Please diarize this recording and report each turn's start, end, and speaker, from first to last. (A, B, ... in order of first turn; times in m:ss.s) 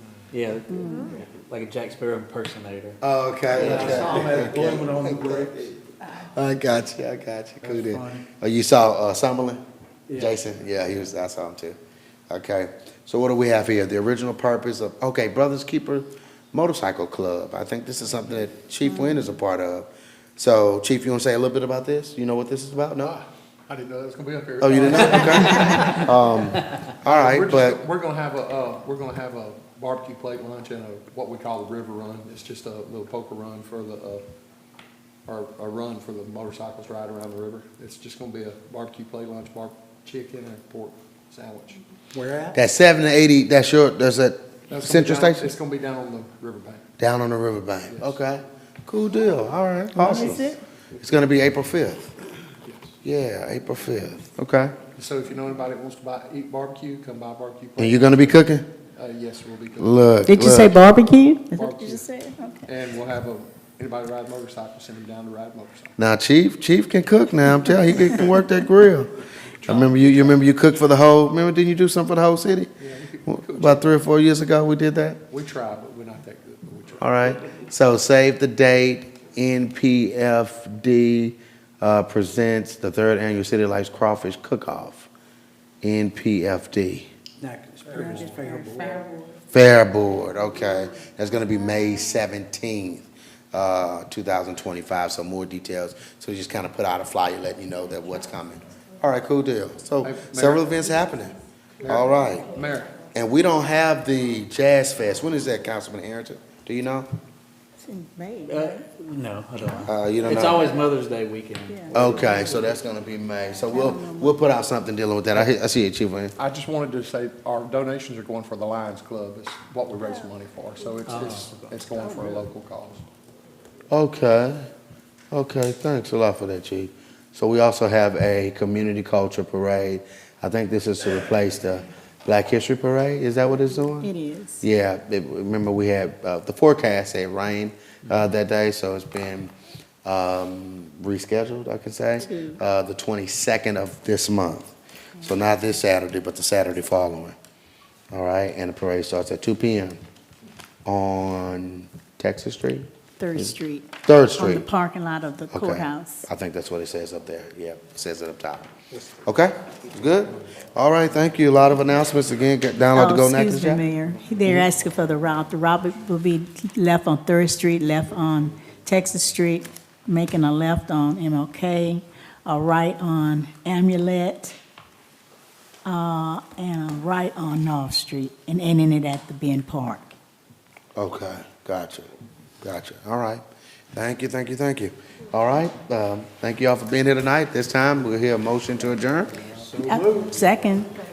0:00.3-0:03.0 A
0:00.7-0:01.1 B
0:03.0-0:05.5 C
0:03.6-0:05.7 D
0:03.6-0:04.0 A
0:06.1-0:09.6 C
0:07.7-0:08.2 D
0:10.1-0:10.4 A
0:10.1-0:11.8 C
0:12.3-0:23.2 C
0:23.0-0:26.1 E
0:24.6-0:27.8 C
0:27.0-0:34.2 E
0:35.2-0:41.8 E
0:42.1-0:42.6 D
0:42.5-0:45.5 C
0:44.7-0:46.8 E
0:47.0-0:52.1 C
0:47.9-0:48.2 E
0:50.0-0:50.6 B
0:52.6-0:52.9 E
0:53.0-0:54.8 C
0:54.9-0:58.4 E
0:57.8-0:58.7 C
0:58.9-1:00.1 E
0:59.8-1:00.8 C
1:00.3-1:02.7 B
1:01.5-1:02.0 E
1:02.6-1:05.9 E
1:06.0-1:09.1 C
1:09.6-1:10.4 E
1:09.6-1:12.7 C
1:12.8-1:14.0 E
1:13.3-1:15.2 C
1:15.3-1:17.3 E
1:17.0-1:25.1 C
1:25.8-1:27.1 C
1:27.4-1:29.2 D
1:29.5-1:42.5 C
1:40.0-1:40.8 E
1:41.8-1:43.0 E
1:43.1-1:47.1 C
1:47.8-1:48.8 B
1:48.5-1:52.3 A
1:49.8-1:50.7 C
1:51.7-1:51.9 B
1:51.9-1:56.3 C
1:53.7-1:54.4 B
1:56.4-2:03.0 E
2:01.0-2:01.8 A
2:03.9-2:04.7 C
2:05.3-2:14.1 C
2:14.0-2:14.6 B
2:14.6-2:19.5 C
2:20.0-2:27.4 C
2:22.2-2:22.6 B
2:28.1-2:30.0 C
2:30.8-2:34.7 C
2:33.2-2:36.3 B
2:35.5-2:38.7 C
2:39.2-2:43.8 C
2:42.9-2:54.6 B
2:55.8-3:00.1 B
3:00.9-3:02.1 C
3:02.6-3:09.3 C
3:09.6-3:10.3 D
3:09.8-3:10.9 B